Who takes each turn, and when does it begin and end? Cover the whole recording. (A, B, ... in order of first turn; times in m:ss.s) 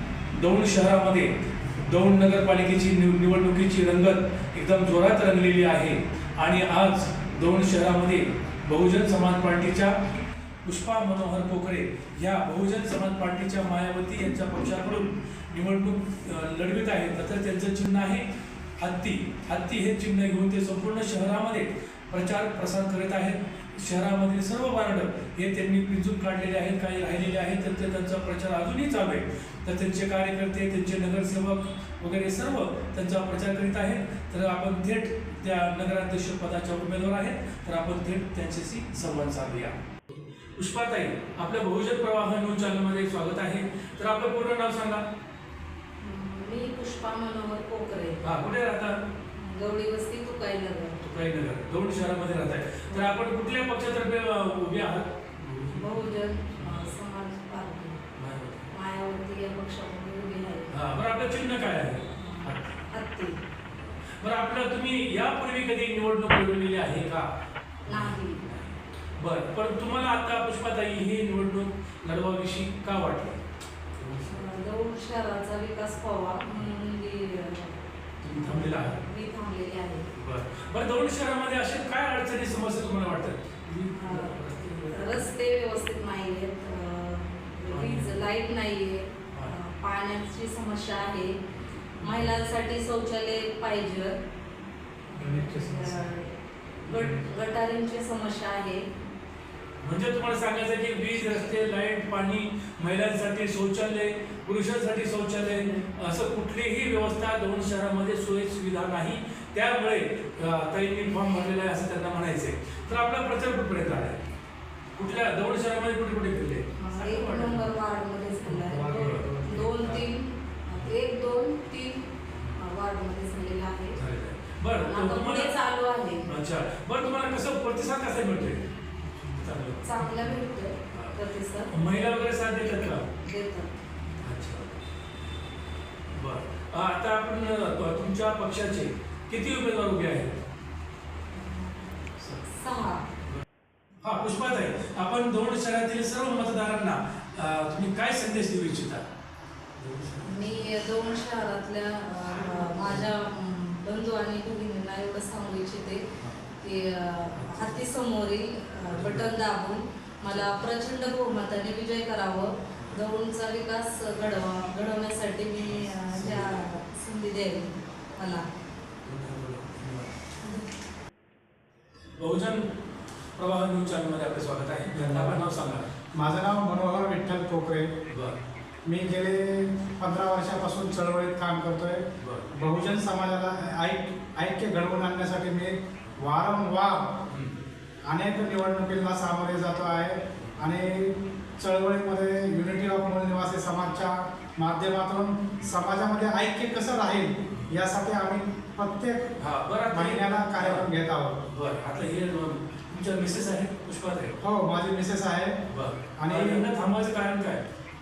0:00.3-0:10.0 A
0:10.6-0:18.2 A
0:18.8-0:39.8 A
0:40.6-0:45.0 A
0:46.0-0:48.2 B
0:48.2-0:49.0 A
0:49.3-0:51.0 B
0:51.0-0:56.9 A
0:52.9-0:53.4 B
0:55.7-0:58.0 B
0:58.2-0:58.7 A
0:58.7-1:00.7 B
1:00.7-1:02.9 A
1:02.1-1:03.4 B
1:04.2-1:07.3 A
1:07.9-1:13.4 A
1:07.9-1:08.4 B
1:13.9-1:14.6 A
1:14.3-1:20.1 B
1:18.2-1:19.0 A
1:20.2-1:25.3 A
1:23.9-1:31.4 B
1:27.7-1:28.2 A
1:32.0-1:34.2 B
1:32.0-1:32.3 A
1:35.1-1:38.9 B
1:35.2-1:36.1 A
1:36.8-1:37.3 A
1:39.8-1:54.2 A
1:45.4-1:45.9 B
1:54.9-1:57.8 A
1:56.8-2:04.0 B
1:58.5-2:00.1 C
1:58.6-1:59.3 A
2:04.0-2:05.6 A
2:04.8-2:06.2 B
2:06.2-2:08.6 A
2:09.2-2:10.4 A
2:09.8-2:11.8 B
2:10.9-2:11.2 A
2:11.7-2:13.1 A
2:13.2-2:13.9 B
2:14.2-2:14.7 A
2:16.1-2:20.4 A
2:21.3-2:23.1 B
2:24.0-2:29.0 A
2:29.8-2:30.7 A
2:30.2-2:36.0 B
2:32.4-2:33.1 A
2:36.6-2:48.4 B
2:37.4-2:37.8 A
2:38.9-2:39.3 A
2:40.3-2:40.6 A
2:45.7-2:46.7 A
2:49.0-2:50.1 A
2:52.2-2:52.7 A
2:53.4-2:55.9 A
2:54.9-2:55.4 C
2:56.1-2:57.9 C
2:58.1-2:58.4 A
2:58.8-3:07.2 C
3:02.2-3:02.5 A
3:07.3-3:07.5 A
3:08.1-3:19.3 C
3:19.4-3:20.9 A
3:19.9-3:21.4 C
3:21.5-3:24.4 A
3:24.4-3:25.6 C
3:25.7-3:27.6 A
3:26.2-3:26.7 C